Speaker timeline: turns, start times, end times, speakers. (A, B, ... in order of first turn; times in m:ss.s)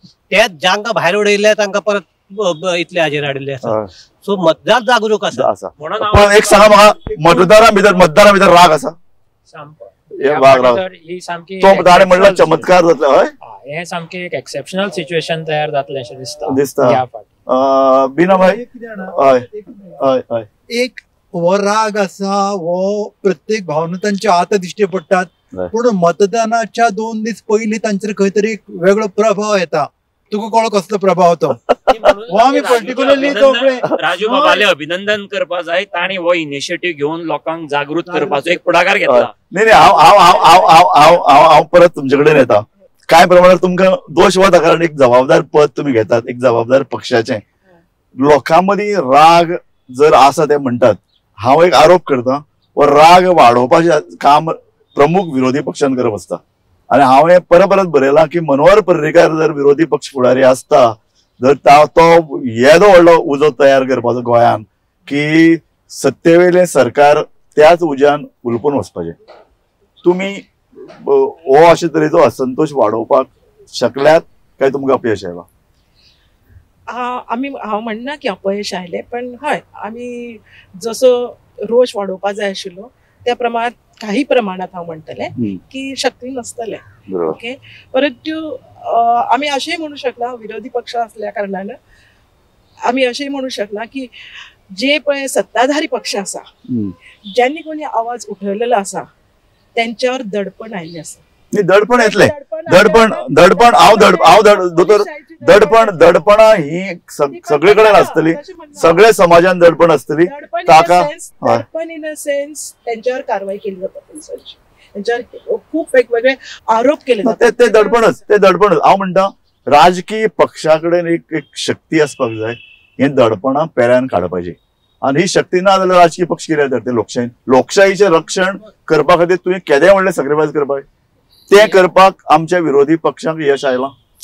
0:00.3-0:05.5 A
0:03.6-0:03.9 B
0:05.3-0:09.0 B
0:05.8-0:07.4 C
0:09.5-0:12.7 D
0:10.2-0:10.8 B
0:11.6-0:13.3 B
0:13.4-0:17.3 D
0:16.5-0:18.6 B
0:18.3-0:20.0 E
0:19.1-0:20.5 B
0:20.7-0:31.6 E
0:31.9-0:32.2 B
0:31.9-0:39.3 C
0:32.3-0:34.6 E
0:38.1-0:38.4 E
0:39.1-0:47.4 B
0:48.2-1:09.2 B
1:10.0-1:15.4 B
1:16.9-1:31.8 F
1:27.1-1:27.4 B
1:32.9-1:34.1 F
1:34.8-1:36.5 F
1:36.7-1:37.0 B
1:37.3-1:39.1 F
1:39.8-1:41.2 F
1:41.5-1:51.6 B
1:42.0-1:46.1 F
1:47.3-1:49.0 F
1:50.2-1:58.2 F
1:57.2-2:10.8 B
2:11.5-2:13.9 B